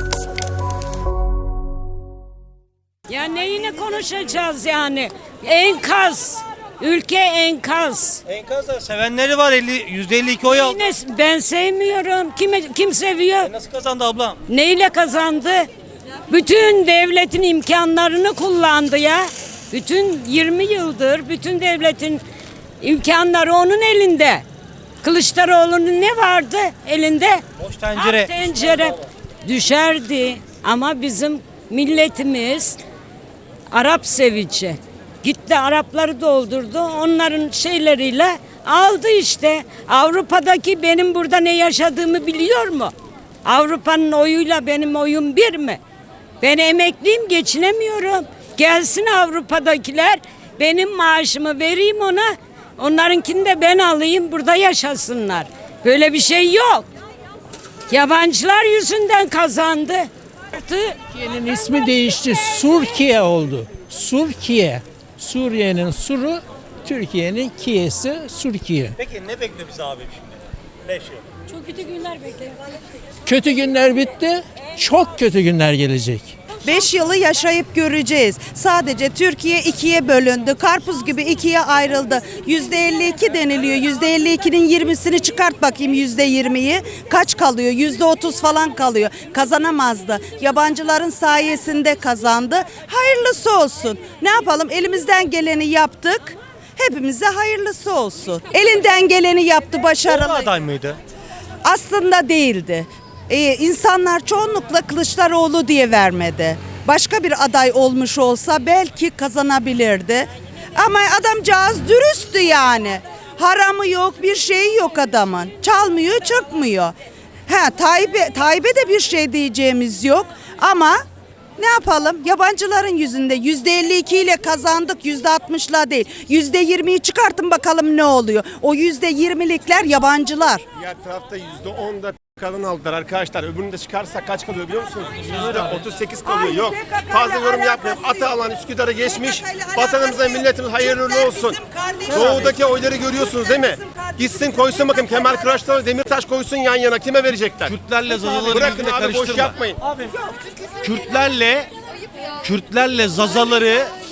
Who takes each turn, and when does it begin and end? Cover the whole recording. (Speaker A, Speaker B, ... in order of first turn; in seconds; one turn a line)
Speaker A: 3.1-8.2
Speaker B: 8.3-10.9
Speaker A: 10.4-13.5
Speaker B: 13.4-14.4
Speaker A: 14.5-15.7
Speaker A: 16.3-22.2
Speaker A: 22.8-24.4
Speaker A: 25.0-32.8
Speaker B: 27.6-28.9
Speaker A: 33.7-42.9
Speaker A: 43.5-45.8
Speaker A: 46.4-56.9
Speaker A: 57.9-61.0
Speaker C: 61.1-69.0
Speaker B: 69.0-70.2
Speaker C: 73.2-76.3
Speaker D: 76.6-100.6
Speaker B: 100.1-101.0
Speaker D: 101.7-117.0
Speaker D: 117.5-121.0
Speaker D: 121.6-130.6
Speaker E: 130.8-141.6
Speaker D: 136.2-138.4
Speaker D: 139.0-142.7
Speaker E: 142.1-147.7
Speaker F: 147.7-149.6
Speaker E: 148.4-149.8
Speaker F: 150.8-151.7
Speaker F: 152.4-153.9